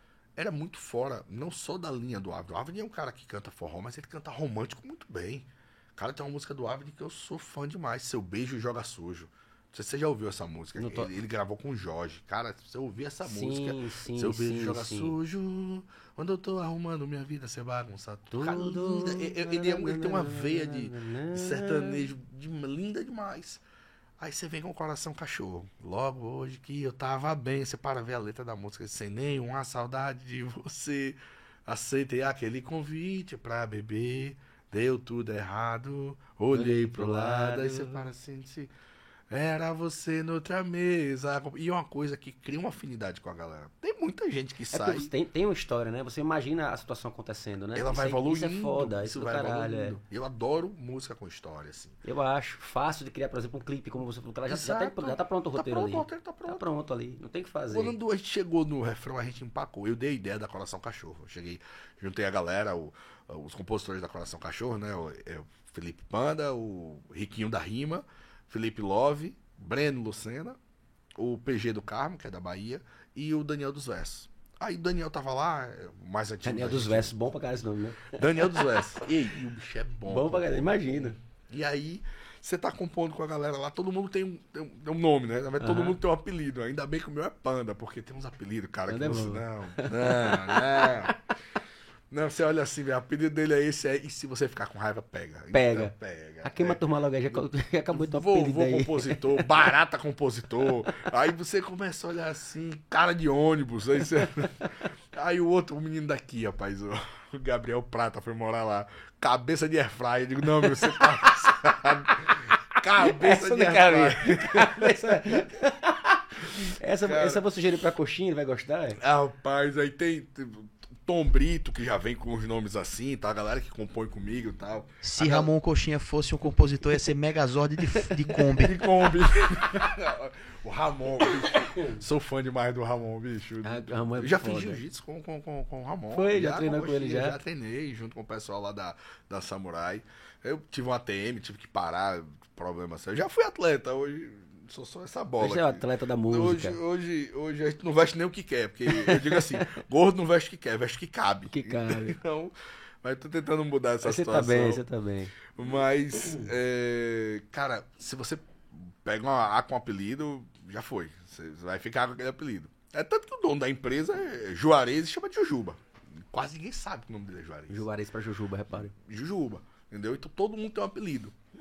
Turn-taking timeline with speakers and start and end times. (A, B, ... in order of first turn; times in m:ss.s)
0:00.4-0:23.6 A
0:10.7-0:11.1 B
0:13.2-0:15.2 B
0:18.3-0:22.0 B
0:24.2-0:38.7 A
0:36.5-0:38.1 B
0:39.3-0:45.1 A
0:44.7-0:50.0 B
0:47.7-0:52.0 A
0:52.0-0:58.0 B
0:54.5-0:56.6 A
0:57.7-1:10.6 A
1:11.2-1:17.2 A
1:16.4-1:19.0 B
1:18.1-1:31.2 A
1:20.0-1:21.2 B
1:25.6-1:26.0 B
1:28.9-1:31.4 B
1:32.1-1:55.5 A
1:35.5-1:39.7 B
1:50.6-1:51.0 B
1:53.0-1:59.0 B
1:57.0-1:57.5 A
1:59.0-2:05.5 A
2:05.0-2:08.8 C
2:08.5-2:34.8 A
2:11.4-2:12.0 B
2:13.6-2:14.8 B
2:16.1-2:17.4 B
2:25.4-2:26.8 B
2:28.9-2:29.8 B
2:31.5-2:32.2 B
2:34.0-2:35.4 B
2:35.4-2:47.9 A
2:47.7-2:48.9 B
2:48.8-2:51.4 A